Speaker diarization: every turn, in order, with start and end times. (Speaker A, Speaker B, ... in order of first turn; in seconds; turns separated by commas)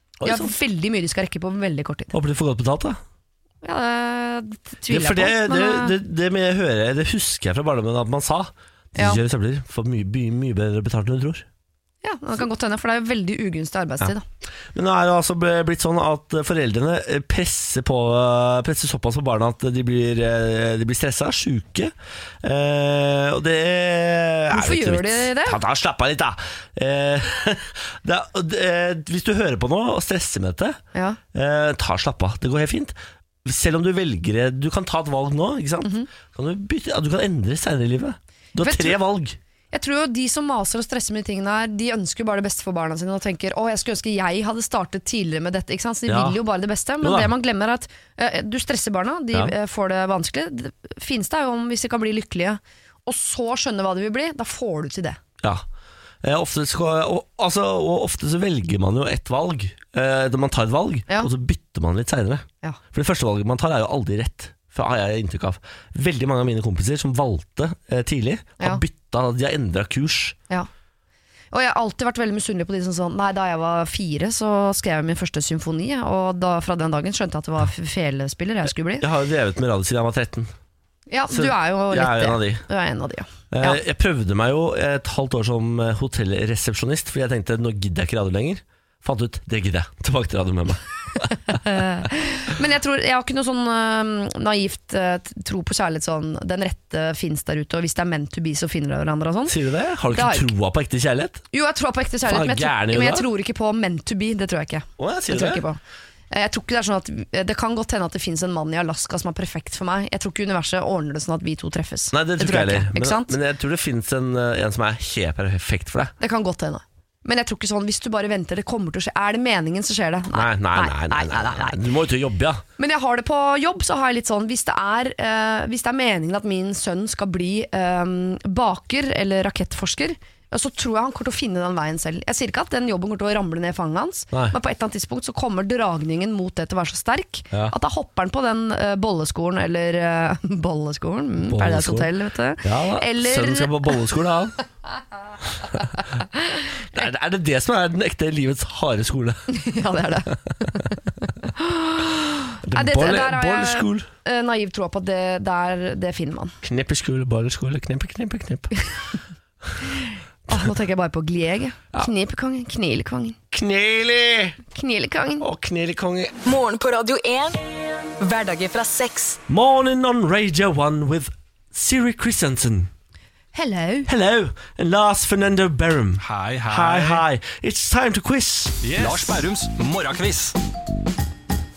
Speaker A: 0.2-0.5, Speaker B: 0.2-2.1, Speaker A: 2.1-3.0, Speaker B: 3.6-6.0, Speaker A: 4.9-11.4, Speaker B: 12.0-14.2, Speaker A: 14.7-30.8, Speaker B: 24.5-25.6, Speaker B: 30.9-31.2, Speaker A: 31.3-39.4, Speaker B: 35.8-36.1, Speaker B: 38.6-39.0, Speaker B: 39.7-55.2, Speaker A: 46.1-46.4, Speaker A: 47.0-47.3, Speaker A: 56.2-70.4, Speaker B: 71.5-79.0, Speaker A: 79.0-80.5, Speaker B: 81.1-83.8, Speaker A: 81.3-82.6, Speaker A: 83.5-91.6, Speaker B: 91.5-99.6, Speaker A: 99.5-101.4, Speaker B: 100.1-100.5, Speaker B: 101.5-105.8, Speaker A: 102.2-103.3, Speaker A: 105.0-105.6, Speaker B: 106.3-113.3, Speaker A: 112.1-116.1, Speaker B: 116.2-121.9, Speaker A: 120.3-122.6, Speaker B: 122.8-143.9, Speaker A: 141.5-144.6, Speaker B: 145.9-146.7, Speaker A: 146.9-149.5, Speaker B: 149.5-156.5, Speaker A: 152.6-154.1, Speaker A: 156.6-158.7, Speaker B: 159.9-163.4, Speaker A: 163.5-164.6, Speaker B: 164.7-165.4, Speaker A: 165.4-166.4, Speaker C: 166.4-167.6, Speaker C: 168.2-169.4, Speaker A: 169.5-172.9, Speaker B: 173.5-174.1, Speaker A: 174.1-179.3, Speaker D: 176.2-177.2, Speaker D: 178.8-180.6